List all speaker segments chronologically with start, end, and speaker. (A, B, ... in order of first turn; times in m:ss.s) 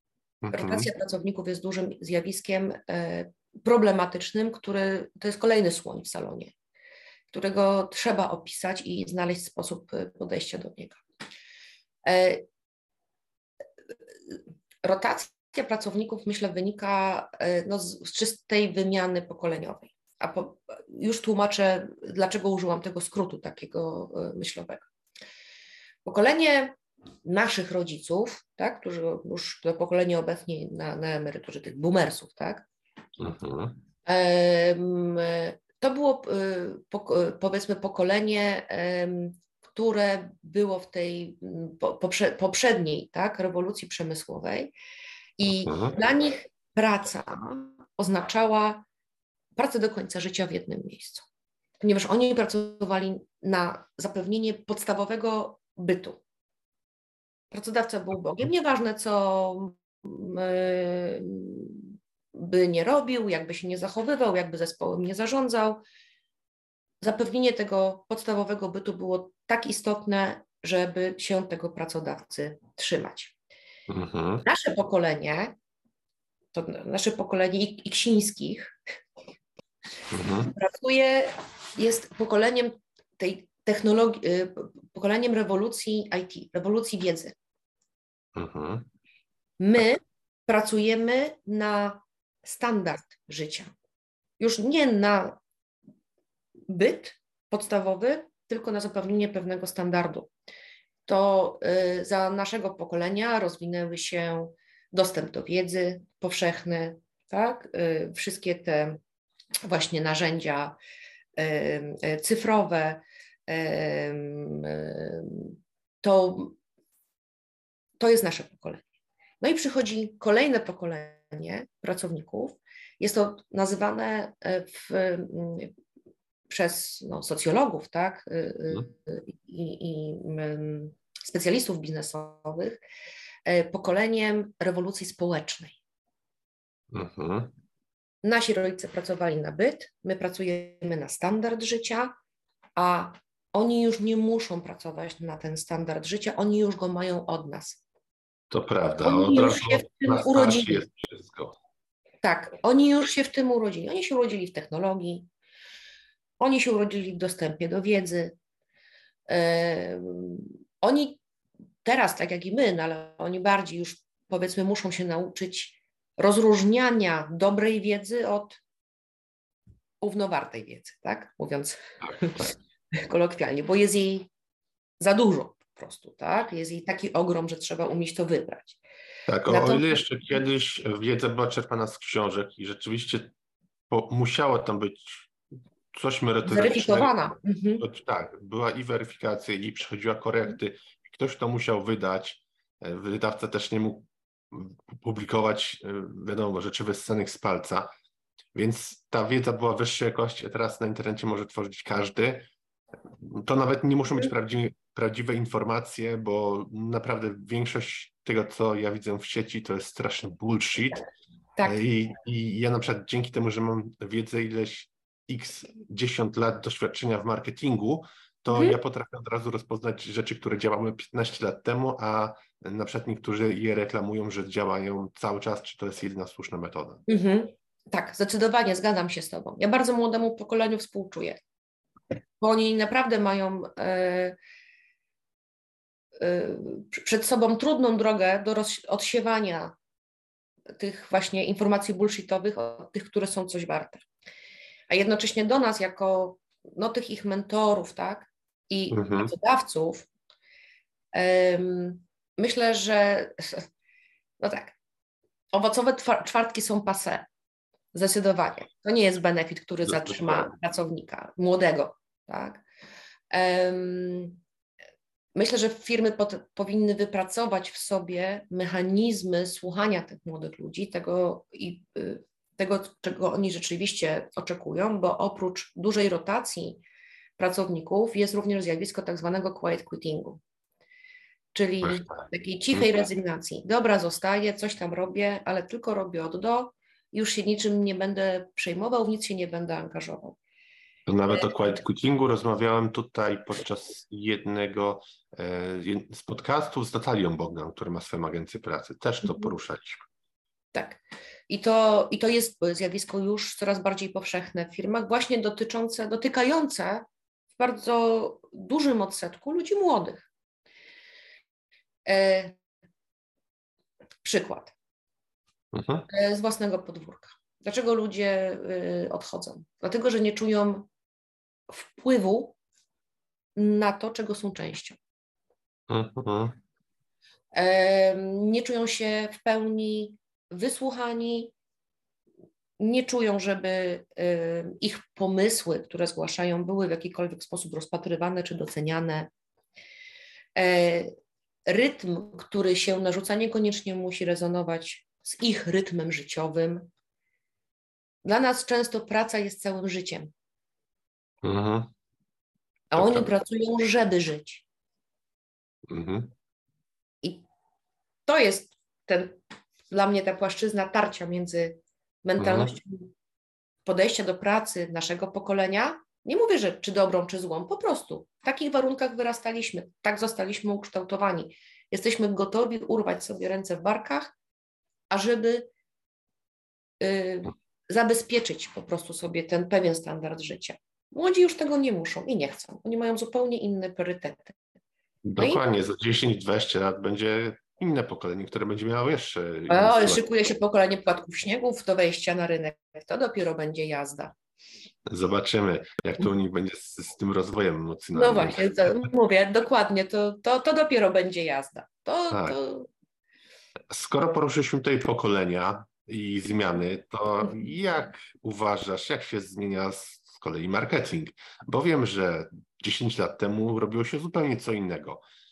0:00.4-0:00.9 A
0:00.5-0:06.5 B
0:07.3-0:11.0 B
0:12.0-0:12.4 B
0:14.3-0:24.9 B
0:26.0-0:32.6 B
0:33.2-0:33.8 A
0:34.0-0:44.7 B
0:45.4-0:48.8 B
0:45.4-0:46.0 A
0:49.6-0:51.2 B
0:51.8-0:56.2 B
0:57.5-1:05.8 B
1:07.0-1:13.4 B
1:13.9-1:14.4 A
1:14.4-1:15.5 B
1:16.5-1:18.7 B
1:20.1-1:20.5 A
1:20.4-1:27.4 B
1:28.3-1:28.9 A
1:29.6-1:33.7 B
1:34.4-1:35.4 B
1:36.7-1:40.3 B
1:41.0-1:49.0 B
1:49.6-1:50.8 B
1:51.4-1:56.6 B
1:58.0-1:58.8 B
1:59.4-2:05.7 B
2:06.5-2:12.8 B
2:13.4-2:15.8 B
2:16.9-2:17.5 A
2:18.2-2:22.1 B
2:22.8-2:27.8 B
2:28.5-2:31.5 A
2:29.0-2:30.8 B
2:32.2-2:35.3 B
2:36.4-2:38.3 B
2:39.3-2:41.2 B
2:41.8-2:48.6 B
2:50.0-2:54.3 B
2:55.0-2:58.8 B
2:59.3-3:03.3 A
2:59.4-3:00.0 B
3:03.9-3:05.3 A
3:05.9-3:17.9 A
3:06.4-3:07.8 B
3:18.5-3:22.5 A
3:23.2-3:31.0 A
3:31.6-3:47.0 A
3:38.5-3:38.8 B
3:47.1-3:51.4 B
3:52.4-3:54.4 B
3:56.2-3:59.7 B
4:00.8-4:04.0 B
4:04.9-4:10.1 B
4:08.9-4:09.3 A
4:11.1-4:13.7 B
4:14.4-4:14.7 B
4:15.5-4:17.3 B
4:17.9-4:22.6 B
4:19.9-4:20.5 A
4:23.3-4:24.4 B
4:25.3-4:36.8 B
4:37.4-4:40.4 B
4:41.5-4:50.4 B
4:41.8-4:42.2 A
4:51.1-5:00.0 A
4:59.2-4:59.5 B
5:00.7-5:10.3 B
5:12.0-5:12.6 B
5:14.2-5:14.7 B
5:15.7-5:16.1 A
5:16.1-5:20.9 B
5:21.7-5:22.6 B
5:23.6-5:25.0 B
5:25.9-5:26.6 A
5:27.5-5:31.5 B
5:32.8-5:39.3 B
5:40.5-5:41.1 B
5:41.6-5:46.9 B
5:48.2-5:50.3 B
5:51.4-5:51.9 A
5:52.9-5:54.6 B
5:52.9-5:53.3 A
5:55.9-5:56.3 A
5:58.2-5:59.4 B
5:59.9-6:03.1 B
6:02.4-6:02.8 A
6:03.8-6:14.3 B
6:15.1-6:15.7 B
6:17.0-6:24.6 B
6:25.2-6:30.2 A
6:25.4-6:25.6 B
6:29.7-6:34.3 B
6:35.1-6:38.7 A
6:38.1-6:42.9 B
6:42.3-6:42.6 A
6:43.9-6:55.2 A